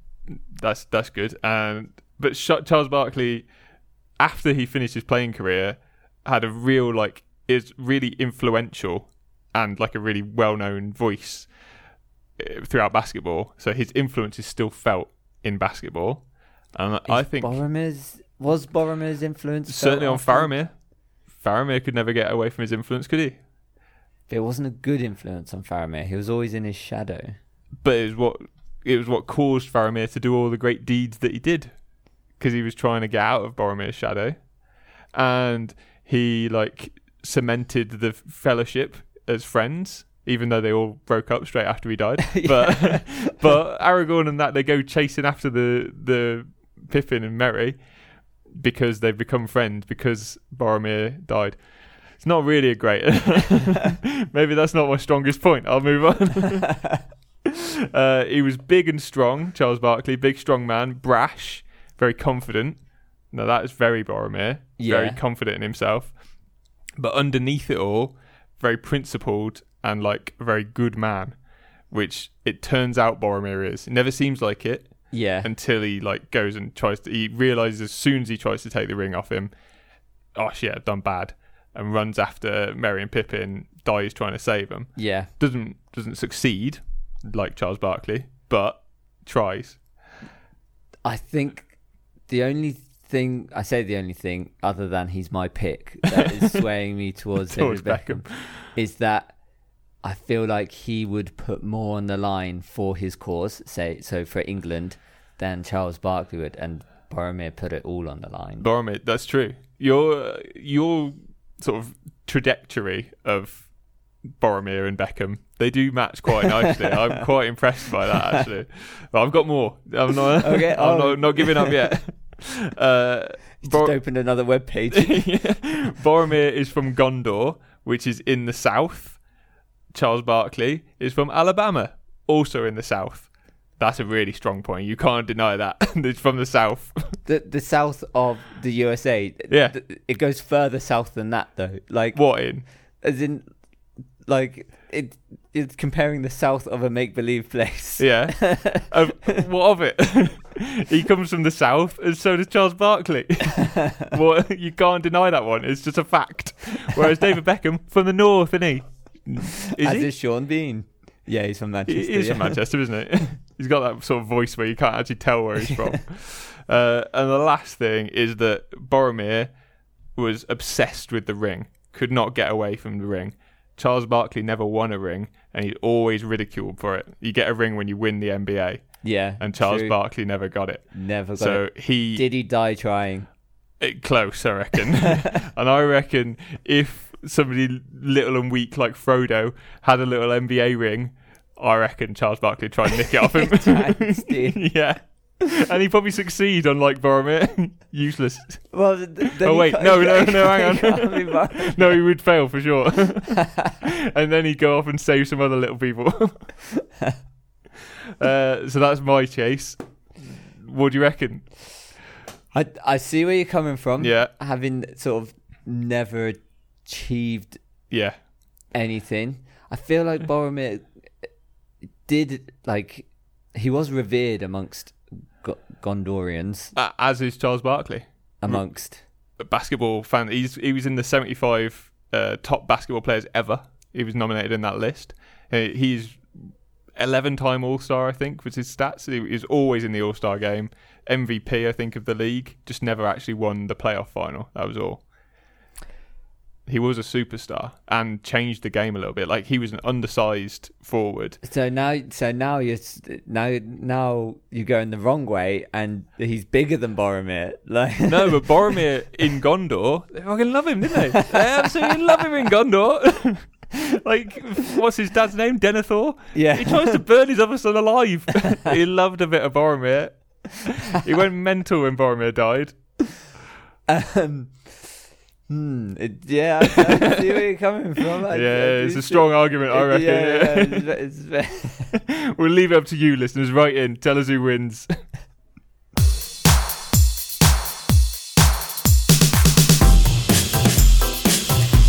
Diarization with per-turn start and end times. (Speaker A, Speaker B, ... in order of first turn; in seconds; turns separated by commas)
Speaker A: 0.3-3.5, Speaker A: 4.2-11.5, Speaker A: 12.4-16.2, Speaker A: 16.8-17.6, Speaker B: 17.1-20.6, Speaker A: 19.7-20.7, Speaker A: 21.4-23.4, Speaker B: 24.3-27.4, Speaker A: 27.8-31.7, Speaker A: 32.4-34.4, Speaker A: 35.1-47.8, Speaker B: 42.3-43.3, Speaker A: 48.6-51.6, Speaker A: 52.2-56.7, Speaker B: 56.7-57.0, Speaker A: 57.5-62.8, Speaker A: 63.3-66.1, Speaker B: 64.8-65.2, Speaker A: 67.0-71.4, Speaker A: 71.9-74.9, Speaker B: 75.1-75.5, Speaker A: 75.4-79.5, Speaker A: 80.4-89.8, Speaker B: 85.0-85.3, Speaker B: 91.0-91.7, Speaker B: 92.3-99.3, Speaker A: 97.5-98.7, Speaker B: 100.0-108.7, Speaker A: 108.6-113.7, Speaker A: 114.4-124.0, Speaker B: 120.4-121.9, Speaker B: 123.6-125.3, Speaker A: 124.9-129.2, Speaker A: 129.9-137.2, Speaker B: 137.2-142.2, Speaker A: 139.5-139.8, Speaker A: 142.2-142.6, Speaker B: 143.0-143.5, Speaker B: 144.3-148.9, Speaker A: 148.0-160.1, Speaker B: 159.8-162.6, Speaker A: 161.9-169.5, Speaker A: 170.2-178.8, Speaker B: 179.0-179.9, Speaker A: 179.4-180.8, Speaker B: 180.9-183.3, Speaker A: 181.4-182.2, Speaker A: 183.8-198.6, Speaker B: 193.2-194.6, Speaker B: 198.7-201.9, Speaker A: 199.2-206.5, Speaker B: 203.4-203.7, Speaker A: 208.2-211.5, Speaker B: 212.5-217.6, Speaker A: 214.0-214.3, Speaker B: 218.7-220.9, Speaker B: 222.1-226.7, Speaker A: 226.8-228.6, Speaker B: 228.4-229.0, Speaker A: 229.4-245.0, Speaker A: 246.7-251.4, Speaker B: 251.4-258.6, Speaker A: 258.1-272.8, Speaker B: 261.1-261.9, Speaker B: 266.3-267.0, Speaker B: 273.9-274.7, Speaker B: 275.5-281.9, Speaker A: 278.3-280.9, Speaker A: 281.9-284.9